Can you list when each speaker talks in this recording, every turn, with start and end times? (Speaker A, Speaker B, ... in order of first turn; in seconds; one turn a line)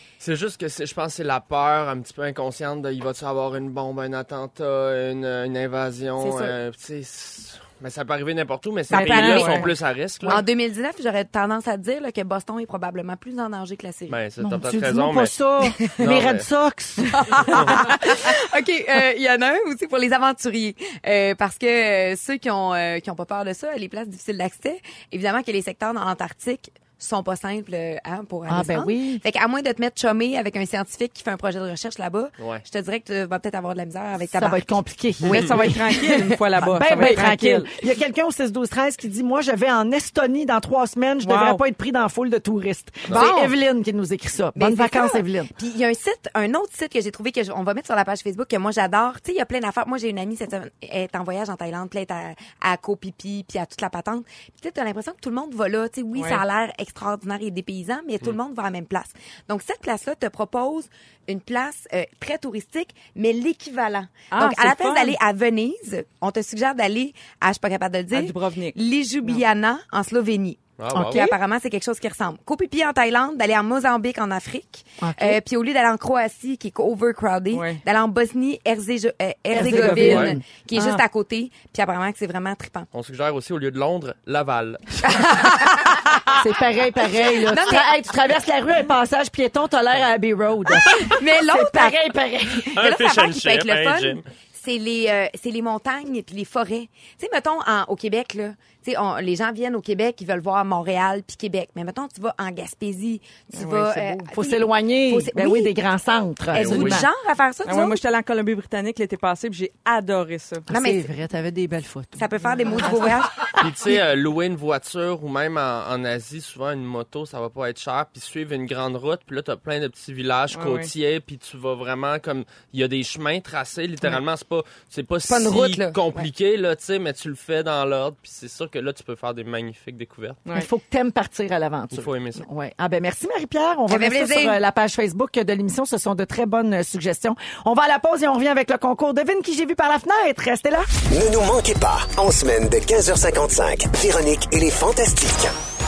Speaker A: 0.2-10.4
Speaker B: 6.2-6.5
Speaker C: 8.9-14.2
Speaker B: 8.9-9.7
Speaker A: 14.1-15.3
Speaker D: 14.4-17.8
Speaker A: 15.9-16.5
Speaker C: 17.1-36.2
Speaker D: 28.5-29.2
Speaker A: 32.4-32.6
Speaker D: 34.3-45.5
Speaker B: 35.3-37.7
Speaker B: 41.2-41.6
Speaker C: 43.1-43.5
Speaker C: 44.5-70.6
Speaker B: 56.1-56.4
Speaker B: 64.3-65.2
Speaker B: 68.1-69.4
Speaker A: 70.8-71.2
Speaker D: 70.9-71.4
Speaker C: 71.1-82.9
Speaker D: 75.0-75.4
Speaker B: 77.5-77.8
Speaker D: 79.5-81.0
Speaker A: 79.6-80.4
Speaker A: 82.9-85.1
Speaker C: 85.0-87.9
Speaker D: 86.4-92.7
Speaker C: 90.8-92.0
Speaker C: 92.5-105.8
Speaker A: 92.7-94.2
Speaker B: 103.5-104.3
Speaker D: 104.3-107.1
Speaker C: 106.5-108.0
Speaker A: 106.5-107.0
Speaker B: 107.7-110.7
Speaker D: 110.7-113.0
Speaker C: 110.7-111.1
Speaker C: 112.2-113.6
Speaker B: 112.4-112.9
Speaker A: 113.5-130.4
Speaker B: 120.5-120.9
Speaker C: 125.3-126.3
Speaker D: 130.5-140.9
Speaker A: 131.9-132.5
Speaker C: 133.9-134.6
Speaker E: 141.1-145.5